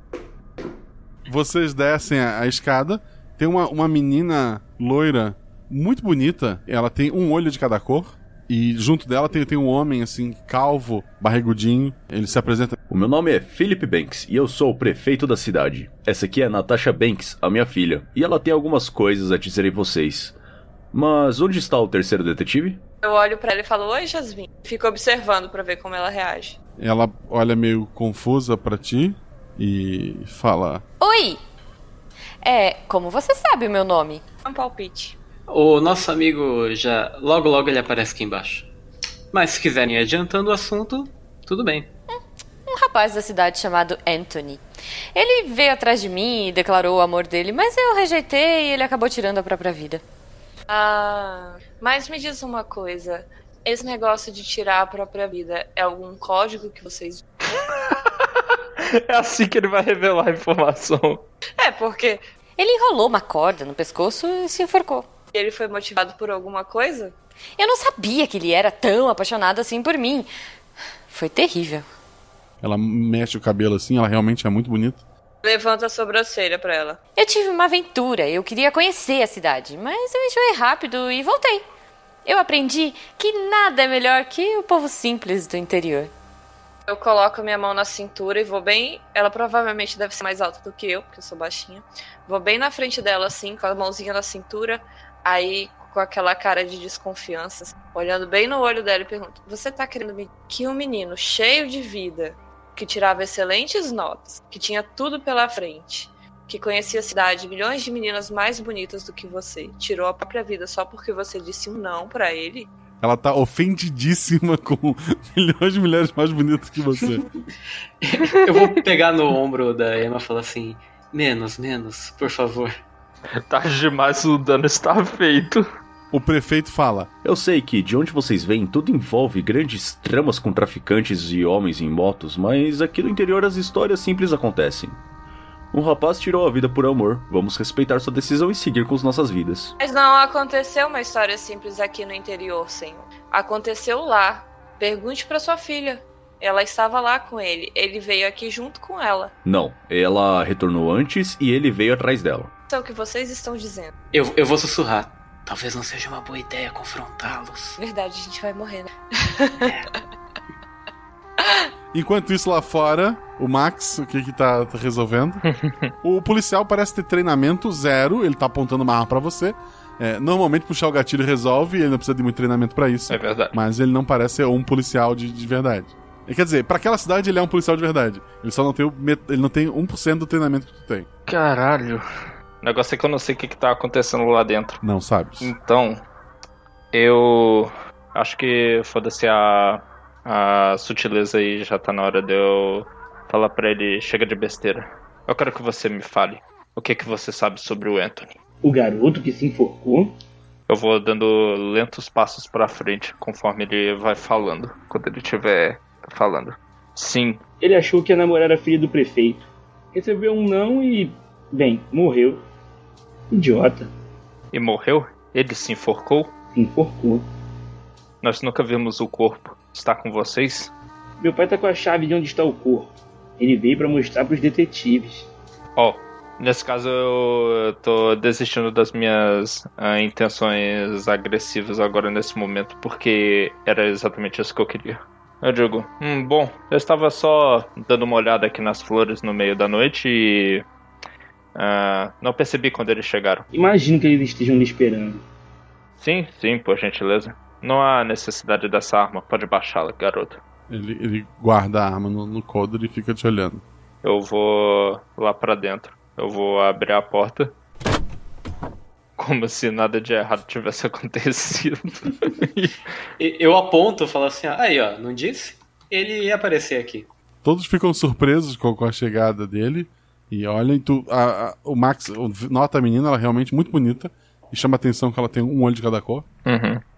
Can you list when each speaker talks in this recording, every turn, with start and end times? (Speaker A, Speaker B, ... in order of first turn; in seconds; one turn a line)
Speaker A: 1.3-12.8
Speaker B: 12.9-20.4
Speaker B: 20.9-22.8
Speaker C: 23.0-26.6
Speaker A: 26.8-30.8
Speaker D: 31.0-31.4
Speaker D: 32.4-34.2
Speaker C: 34.5-35.2
Speaker E: 35.5-38.7
Speaker E: 39.3-41.9
Speaker D: 42.7-44.6
Speaker D: 45.1-50.0
Speaker C: 50.7-57.3
Speaker F: 58.8-61.2
Speaker C: 61.6-62.2
Speaker D: 62.6-65.1
Speaker C: 65.3-67.1
Speaker D: 67.6-70.3
Speaker D: 71.1-71.8
Speaker A: 72.6-75.0
Speaker C: 75.4-77.0
Speaker D: 77.2-81.6
Speaker D: 82.2-86.1
Speaker C: 86.9-112.7
Speaker A: 113.0-117.2
Speaker E: 118.0-122.8
Speaker F: 123.5-125.7
Speaker A: 126.1-127.1
Speaker B: 127.2-135.0
Speaker B: 135.7-139.8
Speaker C: 139.8-149.3
Speaker B: 149.4-152.5
Speaker C: 152.7-153.9
Speaker E: 154.1-157.8
Speaker C: 157.8-159.7
Speaker A: 161.9-165.4
Speaker F: 165.4-165.9
Speaker A: 166.0-181.1
Speaker F: 173.1-173.6
Speaker F: 181.3-182.1
Speaker F: 182.6-184.8
Speaker A: 184.8-185.5
Speaker F: 185.4-186.0
Speaker F: 186.9-198.3
Speaker G: 198.6-200.1
Speaker F: 200.7-207.4
Speaker G: 207.6-212.4
Speaker G: 213.3-213.9
Speaker F: 214.5-216.3
Speaker G: 216.5-217.2
Speaker F: 218.2-220.7
Speaker G: 221.2-225.3
Speaker F: 225.8-240.7
Speaker F: 241.6-243.5
Speaker G: 243.5-245.2
Speaker F: 246.0-250.4
Speaker A: 250.7-253.6
Speaker F: 254.0-257.5
Speaker F: 259.2-262.8
Speaker E: 263.2-267.1
Speaker A: 267.4-276.2
Speaker F: 276.5-276.8